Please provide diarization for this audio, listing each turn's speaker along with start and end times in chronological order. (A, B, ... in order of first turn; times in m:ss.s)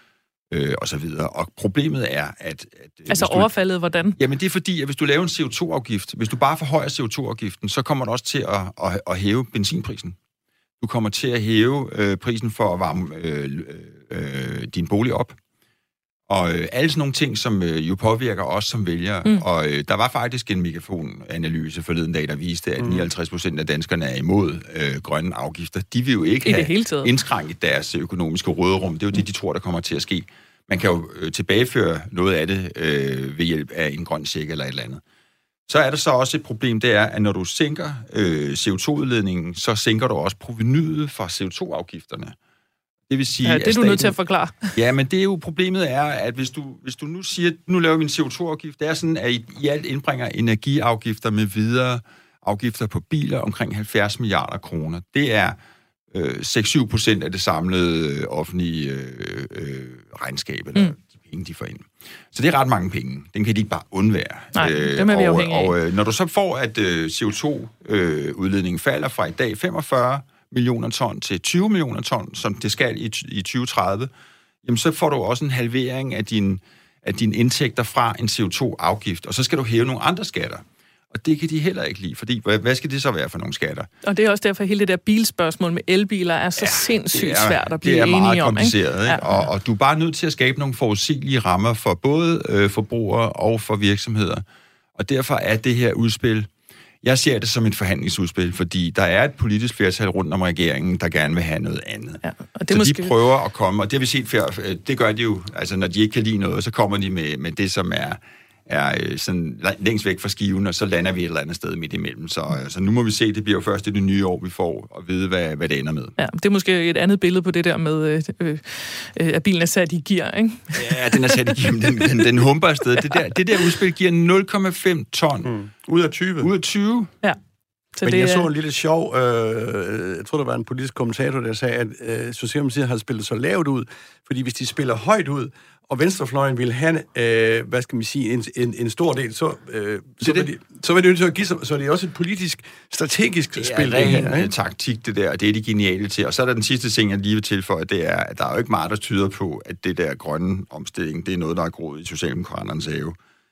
0:00.5-0:03.5 A
0:03.1-0:04.2 B
0:04.2-0:10.2 A
0:10.8-0:15.4 A
0:16.3-0:35.0 A
0:22.8-0:23.0 C
0:26.4-0:27.1 B
0:35.7-0:42.3 A
0:43.1-0:44.2 A
0:43.4-0:44.7 B
0:44.7-0:55.6 A
0:56.1-1:14.1 A
1:04.6-1:05.7 B
1:14.6-1:23.9 A
1:24.0-1:29.5 B
1:26.6-1:34.4 A
1:35.0-1:36.5 A
1:37.0-1:56.2 A
1:42.2-1:43.1 B
1:56.2-2:02.2 B
2:00.7-2:05.5 A
2:05.4-2:06.5 C
2:06.4-2:07.1 A
2:08.0-2:08.5 B
2:08.0-2:24.5 C
2:20.2-2:20.5 A
2:23.6-2:33.2 A